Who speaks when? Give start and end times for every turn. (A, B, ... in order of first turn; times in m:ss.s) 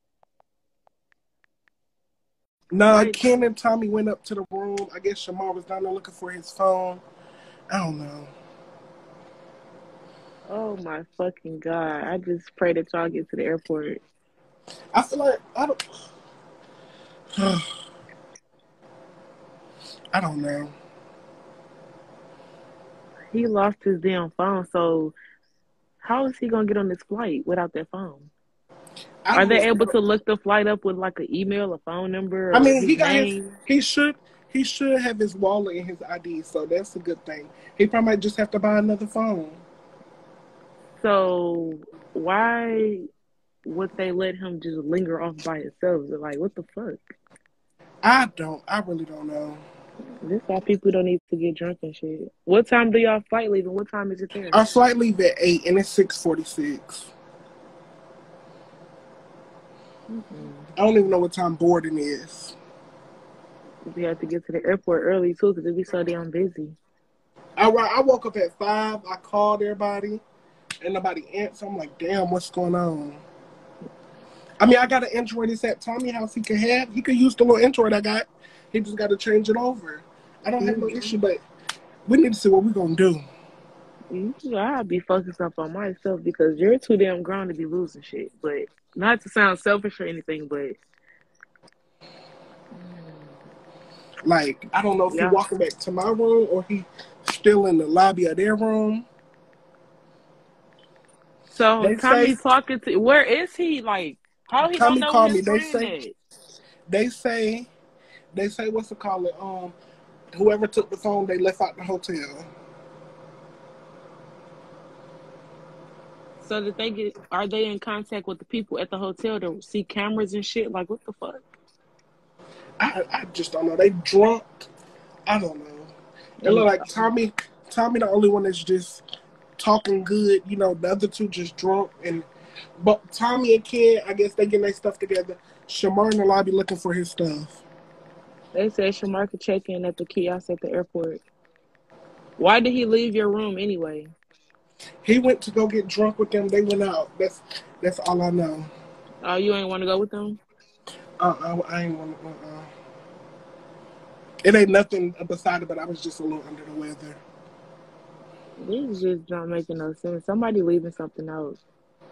0:02.7-0:07.0 A
0:02.9-0:03.3 B
0:07.7-0:08.3 A
0:10.5-0:14.0 B
0:14.9-0:15.8 A
0:17.4-0:17.6 A
0:20.1-0:20.7 A
0:23.3-0:25.2 B
0:26.0-0:28.3 B
0:29.2-0:29.9 A
0:29.3-0:33.6 B
0:32.5-0:39.6 A
0:41.0-0:43.0 B
0:43.6-0:47.0 B
0:48.0-0:49.6 A
0:50.2-0:54.7 B
0:54.5-0:57.1 A
1:00.1-1:00.7 B
1:00.8-1:02.5 A
1:03.9-1:06.8 B
1:07.6-1:10.2 A
1:10.8-1:13.2 A
1:14.6-1:21.4 A
1:20.6-1:21.1 B
1:22.1-1:23.2 A
1:24.1-1:30.8 B
1:32.8-1:33.4 B
1:34.2-1:39.1 A
1:35.1-1:35.4 B
1:41.5-1:46.1 B
1:41.8-1:42.4 A
1:44.6-1:45.9 A
1:46.9-1:47.7 A
1:48.3-1:49.7 A
1:50.3-1:52.5 A
1:56.4-2:01.5 B
2:02.8-2:04.7 A
2:05.3-2:05.9 A
2:06.4-2:07.1 B
2:06.4-2:09.0 A
2:09.6-2:12.2 A
2:12.8-2:17.6 A
2:18.5-2:21.2 B
2:22.4-2:24.1 B
2:25.0-2:28.7 A
2:29.2-2:30.4 B
2:31.2-2:32.7 A
2:34.4-2:37.2 A
2:38.6-2:41.6 B